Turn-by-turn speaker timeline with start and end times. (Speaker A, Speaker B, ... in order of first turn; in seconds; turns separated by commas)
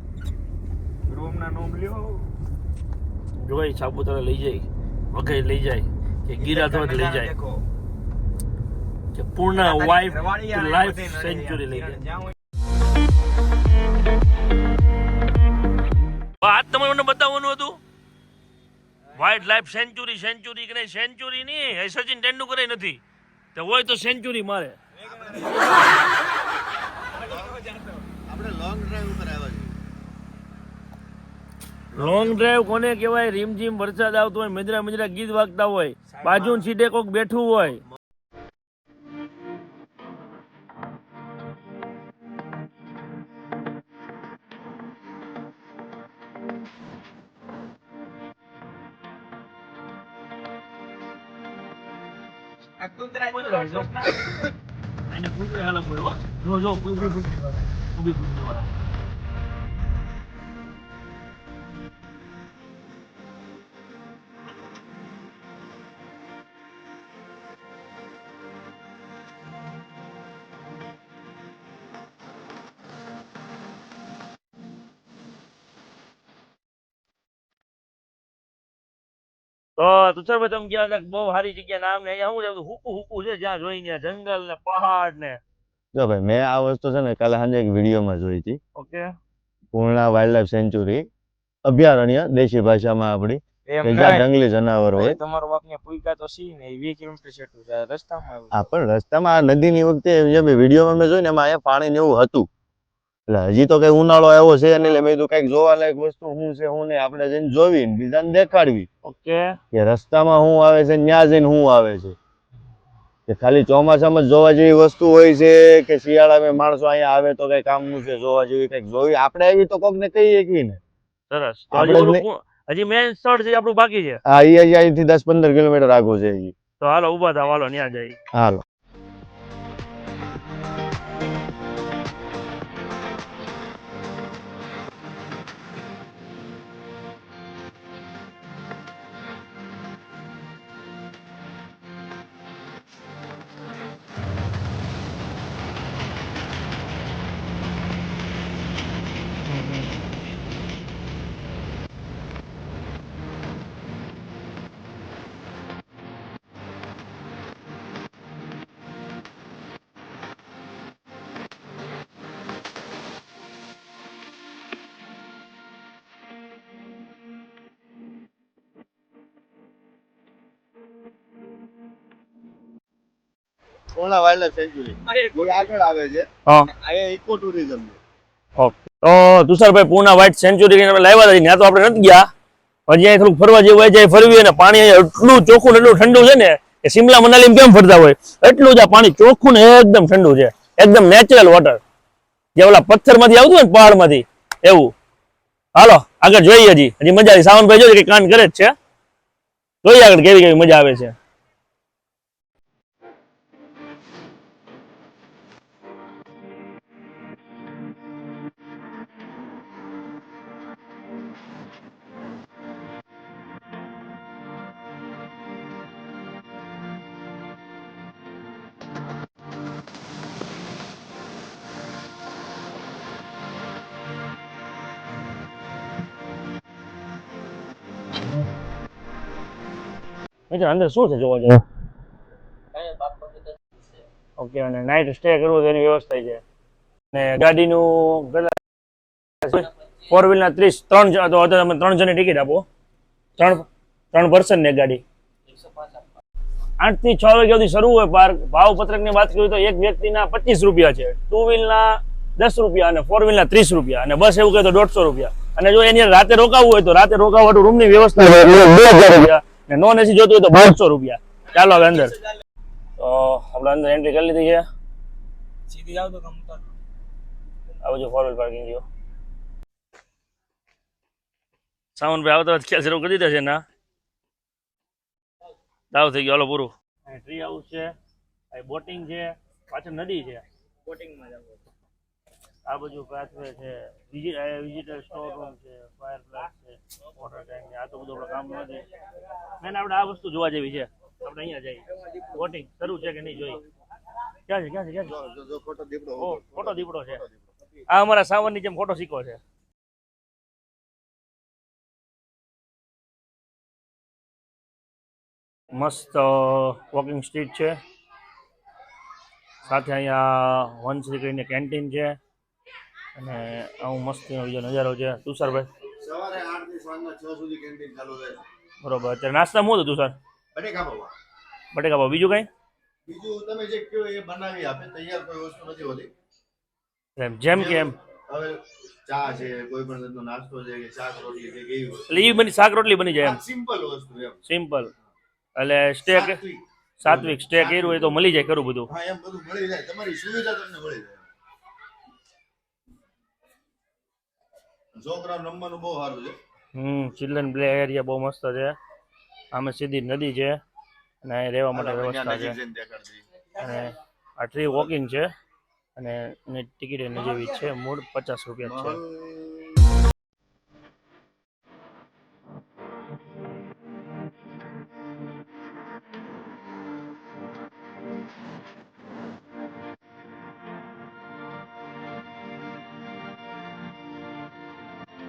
Speaker A: 1.1-2.3, Speaker B: 3.4-7.3, Speaker A: 6.4-7.6, Speaker B: 9.1-12.0, Speaker A: 9.5-12.3, Speaker B: 16.4-17.8, Speaker A: 19.1-19.6, Speaker B: 19.1-23.0, Speaker B: 23.5-24.8, Speaker A: 24.9-25.9, Speaker A: 27.1-28.1, Speaker C: 27.2-27.5, Speaker C: 28.3-29.7, Speaker C: 31.9-32.5, Speaker B: 31.9-37.8, Speaker A: 36.1-36.7, Speaker A: 52.8-54.2, Speaker B: 53.3-54.2, Speaker B: 55.1-57.4, Speaker B: 57.9-58.7, Speaker B: 79.8-85.4, Speaker C: 85.9-88.6, Speaker B: 88.7-89.1, Speaker C: 89.7-91.0, Speaker C: 91.7-95.2, Speaker A: 93.7-94.3, Speaker A: 94.9-98.6, Speaker C: 98.5-102.5, Speaker C: 103.3-108.9, Speaker B: 109.0-109.6, Speaker C: 109.7-112.2, Speaker C: 113.3-120.8, Speaker B: 121.3-124.2, Speaker C: 121.7-122.2, Speaker C: 124.3-126.5, Speaker B: 126.8-128.2, Speaker C: 128.3-128.6, Speaker B: 149.5-149.8, Speaker C: 173.9-178.0, Speaker A: 175.1-175.7, Speaker B: 178.6-182.3, Speaker B: 182.9-191.8, Speaker B: 192.6-194.9, Speaker B: 195.7-198.7, Speaker B: 199.8-201.1, Speaker B: 230.5-231.6, Speaker B: 232.8-233.3, Speaker B: 234.4-236.4, Speaker B: 237.1-238.5, Speaker B: 239.4-242.7, Speaker B: 243.4-245.0, Speaker B: 246.8-262.1, Speaker B: 263.0-264.6, Speaker A: 265.7-266.7, Speaker B: 267.8-268.8, Speaker B: 271.9-273.6, Speaker B: 275.9-277.9, Speaker B: 278.5-280.4, Speaker A: 280.9-281.6, Speaker B: 282.6-288.8, Speaker B: 289.6-293.6, Speaker B: 294.5-295.1, Speaker C: 295.0-297.4, Speaker B: 296.2-297.2, Speaker B: 297.9-299.4, Speaker B: 305.7-307.8, Speaker B: 309.6-312.2, Speaker B: 313.1-315.7, Speaker C: 316.0-318.4, Speaker B: 318.8-320.1, Speaker C: 320.5-321.1, Speaker B: 321.7-322.5, Speaker C: 323.1-326.1, Speaker B: 327.2-327.9, Speaker C: 327.5-332.1, Speaker B: 332.1-333.4, Speaker C: 333.2-334.4, Speaker B: 334.4-334.9, Speaker B: 335.6-336.4, Speaker C: 336.0-338.3, Speaker B: 337.0-338.9, Speaker C: 338.9-341.2, Speaker C: 344.9-346.4, Speaker B: 346.7-348.7, Speaker B: 349.5-350.6, Speaker B: 351.2-352.6, Speaker C: 351.7-353.2, Speaker B: 353.6-355.3, Speaker B: 355.9-359.0, Speaker C: 358.6-359.8